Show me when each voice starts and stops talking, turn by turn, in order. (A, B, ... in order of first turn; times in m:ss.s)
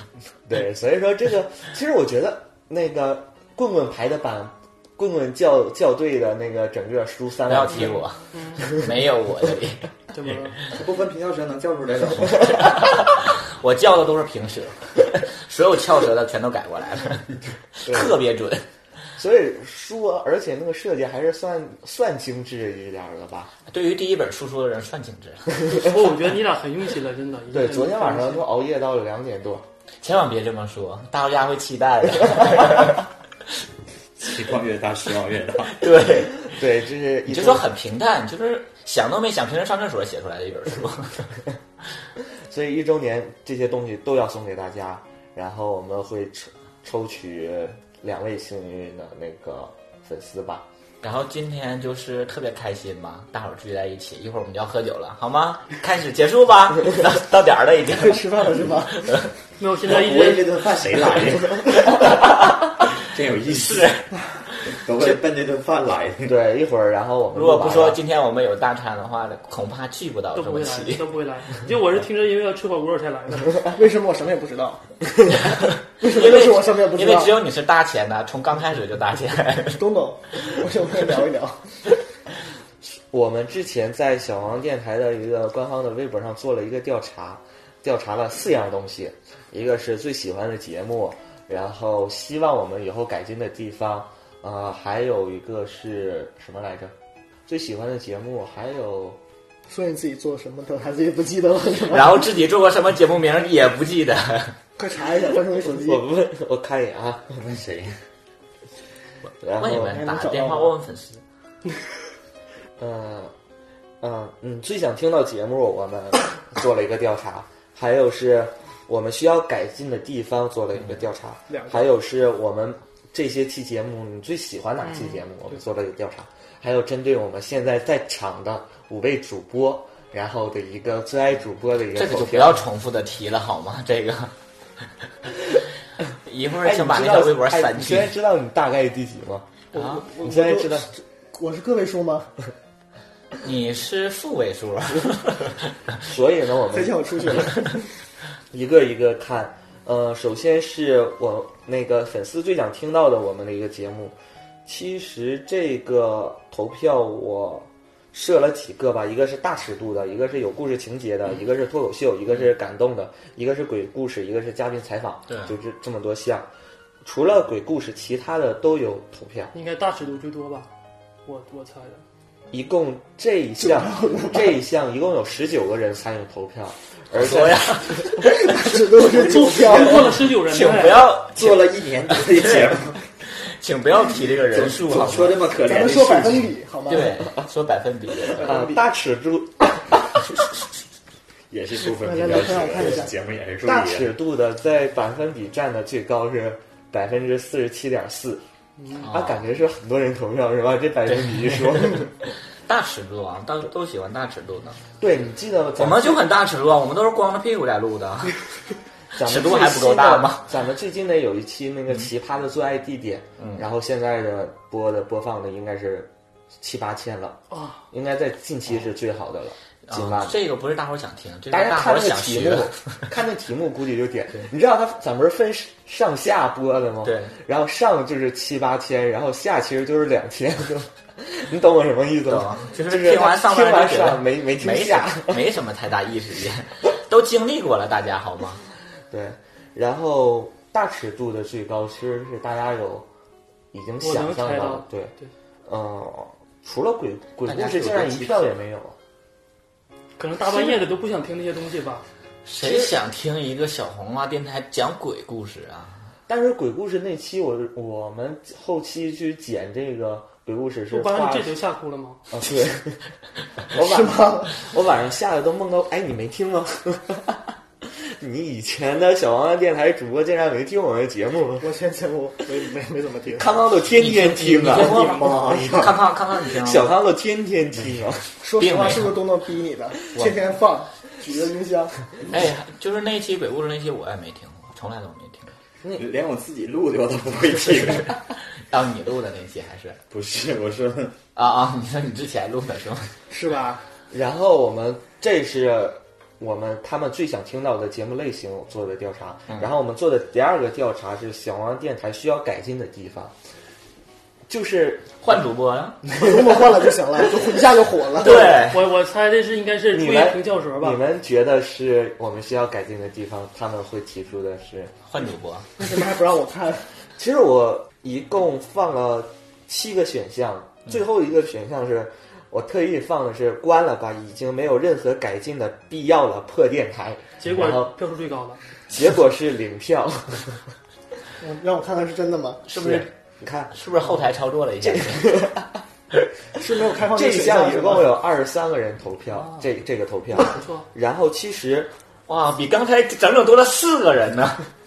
0:00.5-0:08.0 A
0:07.5-0:10.3 B
0:08.3-0:08.7 C
0:10.1-0:10.6 C
0:10.7-0:12.8 D
0:12.4-0:18.7 B
0:17.9-0:18.2 A
0:19.2-0:23.5 A
0:23.7-0:25.7 B
0:25.7-0:28.4 C
0:27.5-0:29.6 A
0:30.0-0:33.1 B
0:34.2-0:35.8 D
0:35.6-0:36.4 B
0:36.4-0:37.7 A
0:37.3-0:41.3 B
0:42.5-0:50.7 A
0:51.0-0:58.3 B
0:57.9-0:59.2 E
0:59.6-1:00.7 C
0:59.8-1:02.0 D
1:01.9-1:02.7 B
1:03.1-1:03.9 D
1:03.5-1:04.1 B
1:04.8-1:06.4 D
1:06.2-1:08.0 A
1:07.3-1:11.0 B
1:10.3-1:13.7 C
1:13.7-1:14.8 E
1:15.3-1:19.8 B
1:16.0-1:17.3 E
1:19.8-1:21.7 E
1:22.8-1:36.9 A
1:37.5-1:39.2 A
1:39.7-1:42.3 E
1:41.9-1:44.6 B
1:44.8-1:46.0 E
1:45.6-1:47.4 A
1:47.4-1:47.9 D
1:49.4-1:50.0 A
1:49.6-1:51.2 B
1:49.9-1:50.7 E
1:52.8-1:53.3 A
1:54.0-2:12.6 A
2:01.5-2:01.8 E
2:04.8-2:05.2 C
2:12.0-2:14.3 B
2:16.3-2:18.1 B
2:16.6-2:19.6 A
2:19.8-2:20.0 B
2:19.8-2:20.1 C
2:20.2-2:22.3 E
2:20.2-2:20.9 A
2:23.4-2:25.6 B
2:26.1-2:27.0 A
2:26.7-2:27.9 E
2:28.5-2:46.5 A
2:47.0-2:49.5 A
2:49.5-2:50.7 C
2:51.3-2:52.0 C
2:52.5-2:58.0 A
2:53.7-2:54.4 E
2:57.2-2:58.5 B
2:58.2-3:00.2 E
2:59.2-3:01.1 C
3:00.3-3:02.8 B
3:01.3-3:03.0 D
3:03.3-3:05.4 B
3:04.5-3:06.5 D
3:05.5-3:07.2 E
3:06.9-3:08.6 B
3:08.4-3:10.0 A
3:08.4-3:08.7 E
3:11.5-3:14.2 D
3:11.9-3:13.1 E
3:13.6-3:18.4 A
3:19.0-3:19.4 B
3:19.1-3:22.1 A
3:21.1-3:22.0 B
3:22.7-3:24.8 B
3:25.0-3:26.3 A
3:25.8-3:28.4 B
3:29.2-3:40.4 A
3:29.2-3:30.5 B
3:33.4-3:33.6 B
3:37.5-3:37.8 C
3:39.9-3:42.7 B
3:41.5-3:55.4 A
3:47.0-3:47.3 B
3:52.3-3:58.6 B
3:59.1-4:03.1 A
4:03.7-4:05.1 A
4:04.0-4:05.3 C
4:05.7-4:09.0 A
4:07.5-4:08.5 B
4:10.2-4:12.0 C
4:10.5-4:10.8 A
4:12.5-4:16.1 B
4:12.6-4:12.9 A
4:16.3-4:21.6 A
4:20.9-4:22.2 C
4:22.3-4:23.0 A
4:23.7-4:24.6 E
4:23.7-4:31.7 A
4:31.6-4:33.6 E
4:33.4-4:36.0 A
4:34.0-4:36.9 B
4:36.6-4:38.3 A
4:38.4-4:42.0 E
4:38.6-4:39.2 B
4:42.3-4:45.5 B
4:45.9-4:48.2 D
4:48.6-4:50.0 B
4:50.1-4:51.2 D
4:51.4-4:53.1 B
4:53.3-4:53.8 E
4:54.1-5:03.3 A
5:04.5-5:05.1 A
5:05.2-5:06.0 B
5:06.1-5:08.6 E
5:08.2-5:08.8 B
5:08.4-5:11.0 C
5:09.9-5:15.0 A
5:15.0-5:15.7 B
5:15.8-5:16.9 E
5:17.2-5:28.0 A
5:27.4-5:28.6 C
5:28.9-5:30.6 A
5:31.4-5:33.0 E
5:32.7-5:33.1 B
5:33.4-5:33.7 A
5:33.7-5:35.4 B
5:34.8-5:35.8 A
5:36.6-5:38.2 E
5:37.1-5:41.9 A
5:39.4-5:39.6 C
5:40.5-5:40.8 C
5:42.3-5:44.7 B